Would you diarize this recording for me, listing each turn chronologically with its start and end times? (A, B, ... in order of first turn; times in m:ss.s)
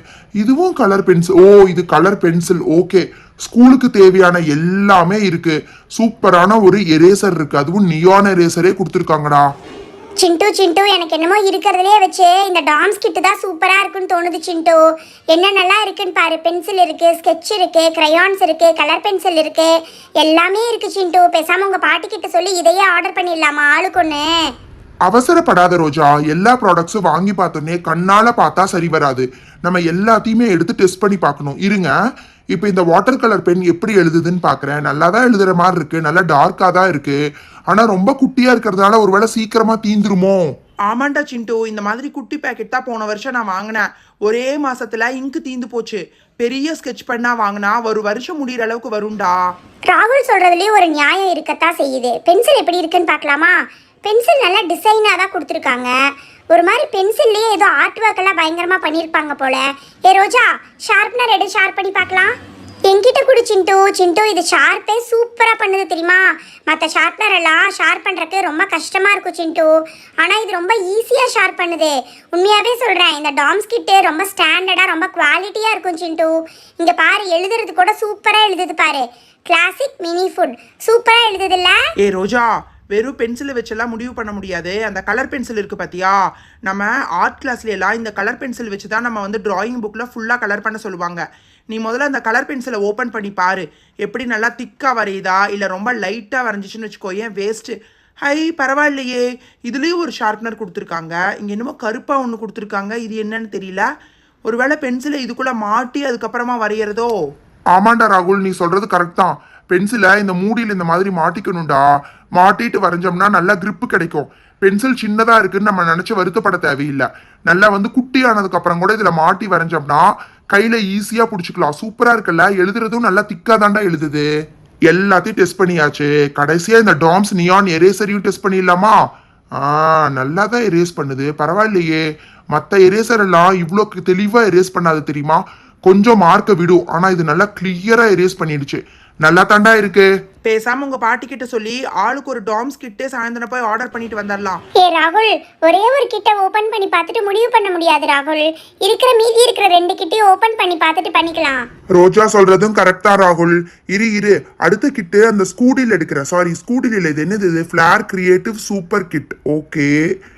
0:00.4-0:09.5 A
0:10.2-0:14.8 B
0:15.3-0:24.3 B
0:25.0-0:31.9 A
0:32.5-0:37.2 A
0:37.7-0:40.5 A
0:40.9-0:49.4 C
0:49.9-0:55.9 B
0:56.5-1:02.4 B
1:02.9-1:21.8 B
1:22.0-1:37.7 C
1:38.2-1:43.9 C
1:44.4-1:47.1 C
1:47.7-1:51.8 A
1:52.4-2:04.2 A
2:04.9-2:09.0 A
2:09.6-2:20.1 A
2:20.4-2:24.6 C
2:24.8-2:31.7 B
2:31.9-2:39.9 A